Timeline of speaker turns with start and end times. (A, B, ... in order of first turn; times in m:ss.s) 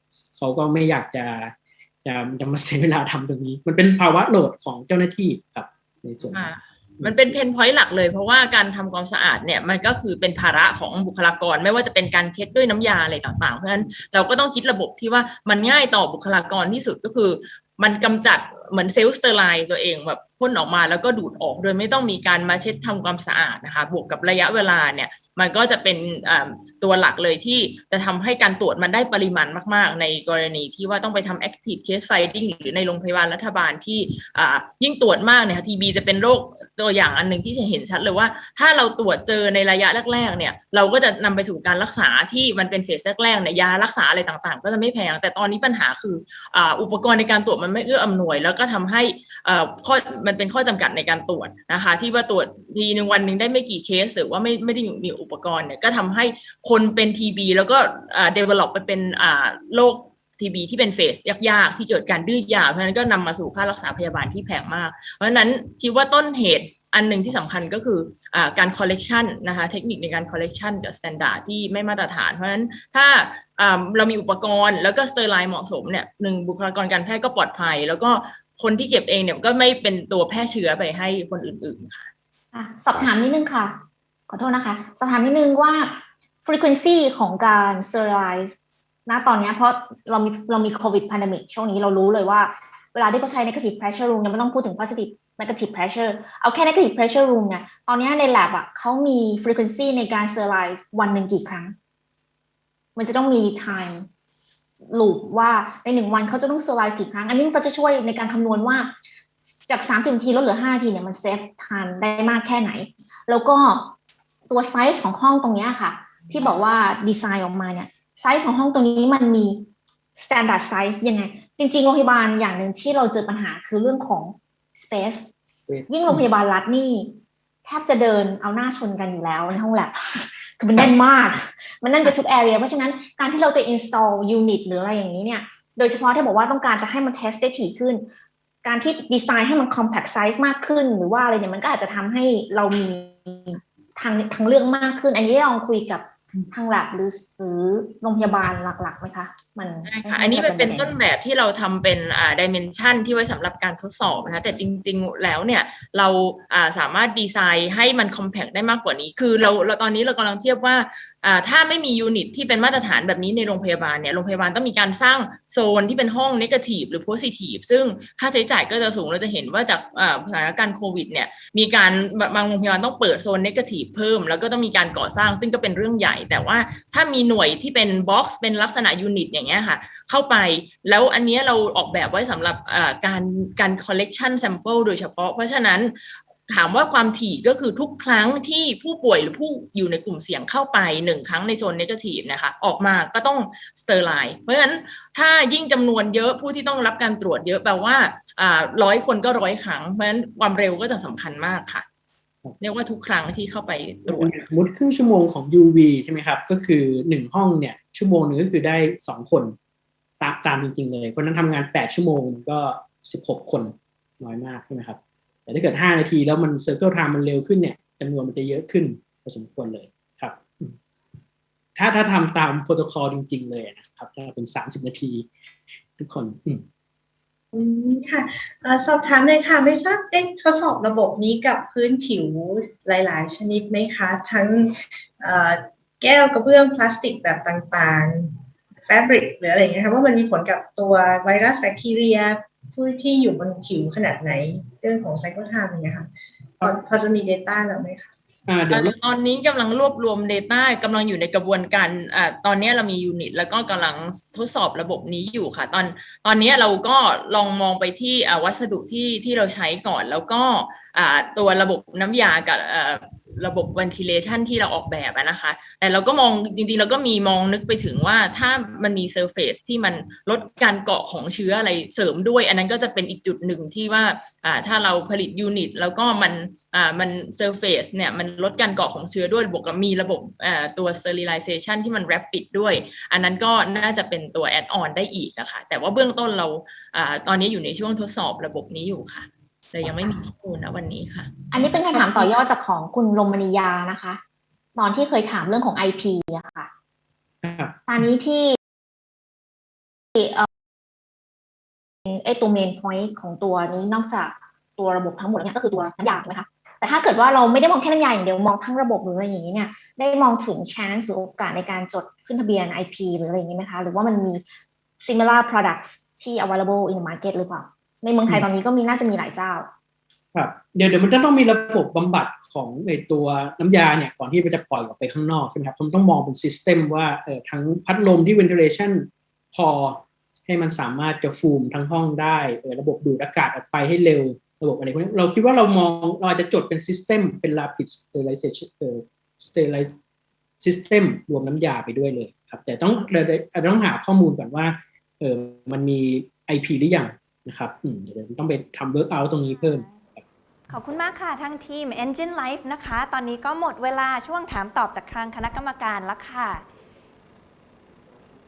0:00.4-0:06.5 A
0:06.3-1:22.1 B
0:07.0-0:07.4 A
1:22.5-1:41.8 C
1:43.0-1:44.1 C
1:44.9-1:48.9 C
1:49.7-1:53.9 C
1:54.5-2:05.3 C
2:05.6-2:06.2 A
2:05.9-2:18.1 C
2:18.6-2:30.9 C
2:29.8-3:05.9 B
3:06.5-3:21.8 B
3:22.6-3:24.4 B
3:24.1-3:29.5 A
3:30.2-3:40.8 A
3:41.8-3:45.3 A
3:46.0-3:46.6 A
3:47.5-4:06.1 D
4:06.6-4:08.1 D
4:08.5-4:08.9 A
4:08.7-4:51.5 B
4:51.5-4:54.2 C
4:54.8-4:56.7 C
4:57.4-4:58.0 A
4:57.9-4:58.6 C
5:00.2-5:00.5 C
5:02.0-5:14.4 C
5:15.0-5:19.7 C
5:20.3-5:39.9 A
5:40.6-5:50.2 A
5:49.7-5:50.0 E
5:50.7-5:56.6 E